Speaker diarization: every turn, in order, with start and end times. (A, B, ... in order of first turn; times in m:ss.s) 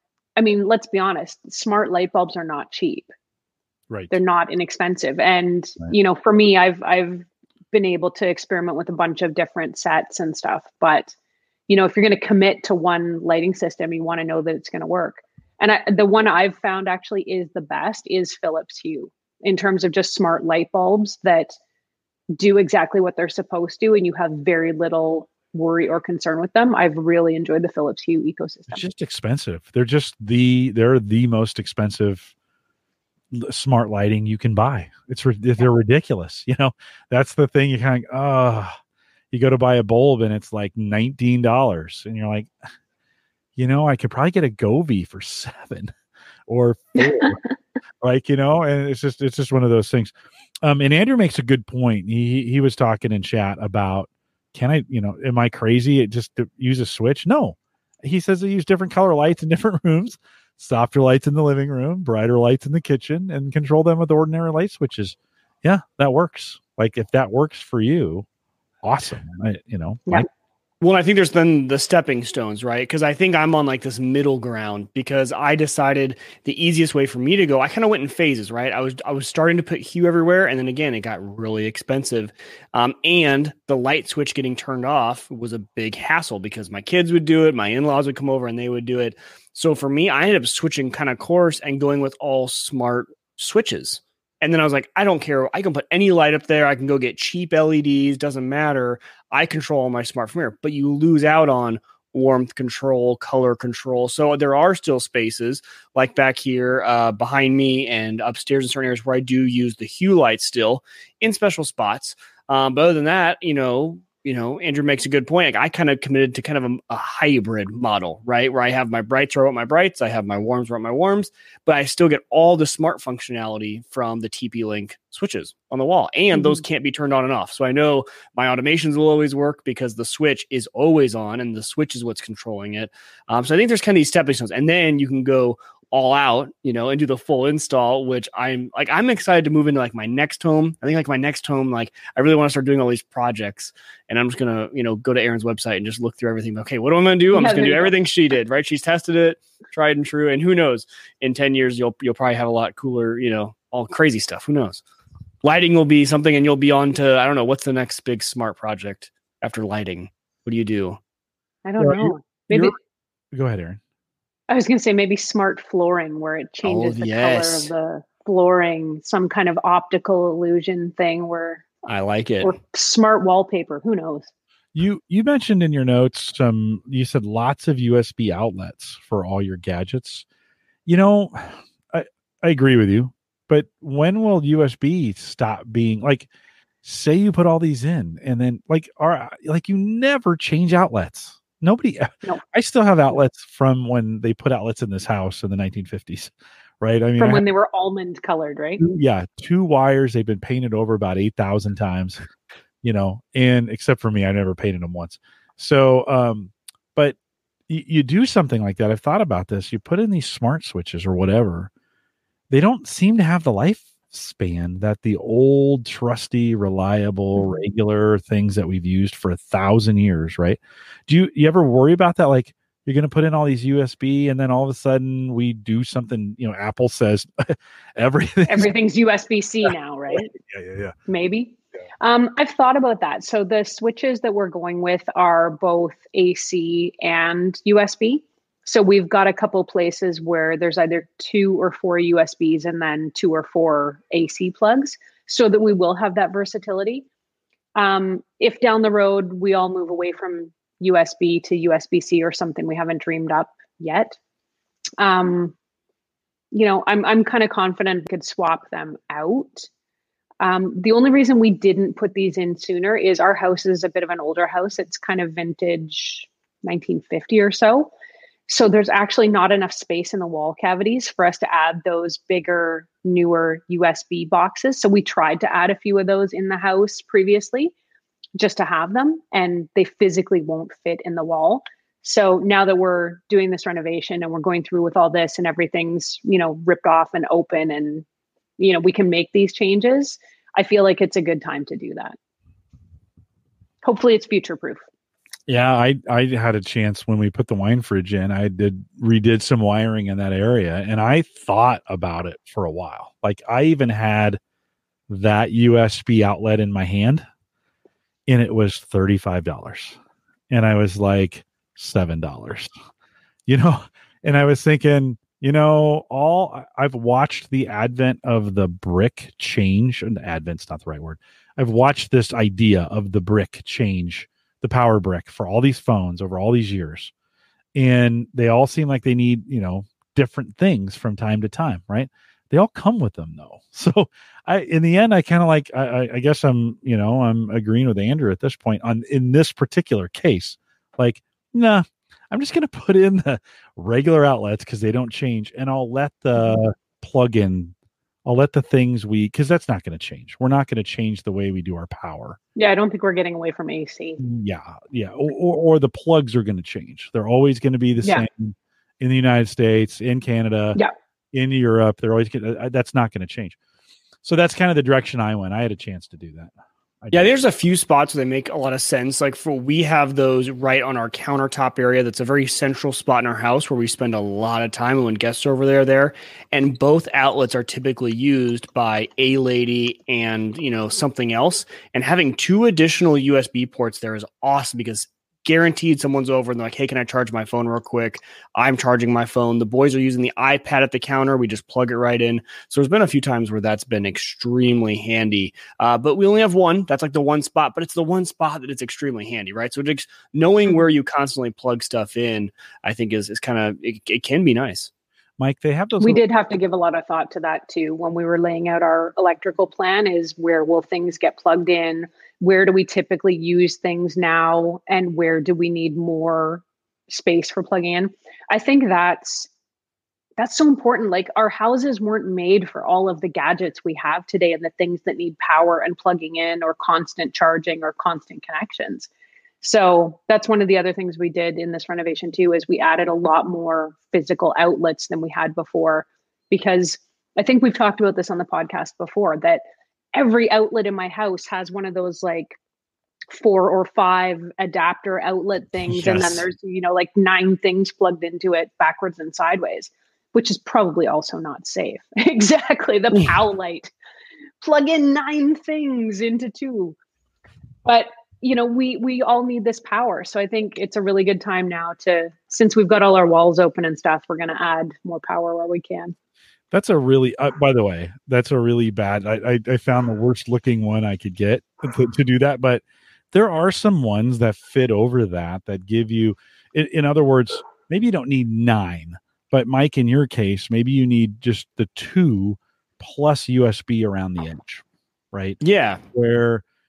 0:00.4-0:03.1 A
0:04.1-0:11.1 A
0:11.7-0:21.6 A
0:22.4-0:28.8 A
0:28.7-0:32.3 B
0:33.3-0:38.8 B
0:39.3-0:42.5 B
0:43.6-0:45.9 B
0:46.5-0:47.4 B
0:47.0-0:47.5 A
0:48.0-0:50.1 B
0:50.6-1:08.3 B
1:08.8-1:10.3 B
1:10.8-2:34.8 C
2:27.3-2:27.9 A
2:35.4-2:41.0 C
2:41.6-2:42.8 A
2:41.8-2:42.8 B
2:43.3-2:43.8 B
2:44.5-2:51.7 A
2:46.6-2:47.7 C
2:51.9-2:52.5 C
2:52.4-2:54.3 A
2:54.8-3:00.2 B
3:00.9-3:06.3 B
3:06.8-3:17.5 B
3:17.2-3:18.8 A
3:18.8-3:22.2 B
3:22.8-3:27.2 B
3:27.7-3:31.7 B
3:32.5-3:48.7 B
3:48.5-3:50.4 A
3:50.2-3:50.9 B
3:51.1-4:07.0 A
4:07.8-4:14.2 A
4:15.0-4:15.5 A
4:16.5-4:19.7 A
4:20.4-4:27.9 A
4:28.5-4:37.7 A
4:38.4-4:48.0 A
4:48.6-4:52.2 A
4:53.8-4:54.8 A
4:55.5-5:04.4 B
5:05.1-5:07.3 B
5:08.3-5:10.0 B
5:10.5-5:12.7 B
5:13.5-5:27.1 B
5:27.8-5:47.7 B
5:48.2-5:52.4 B
5:52.6-5:54.2 A
5:54.2-6:00.8 B
6:01.3-6:03.6 B
6:04.2-6:07.4 B
6:07.1-6:44.9 C
6:45.4-6:46.2 B
6:46.0-6:59.5 A
7:00.4-7:09.1 A
7:09.6-7:19.6 A
7:20.1-7:22.6 A
7:23.3-7:33.9 A
7:25.9-7:26.4 B
7:34.6-7:37.0 A
7:37.8-7:46.2 A
7:46.7-8:05.6 B
8:05.6-8:06.0 C
8:06.1-8:06.6 B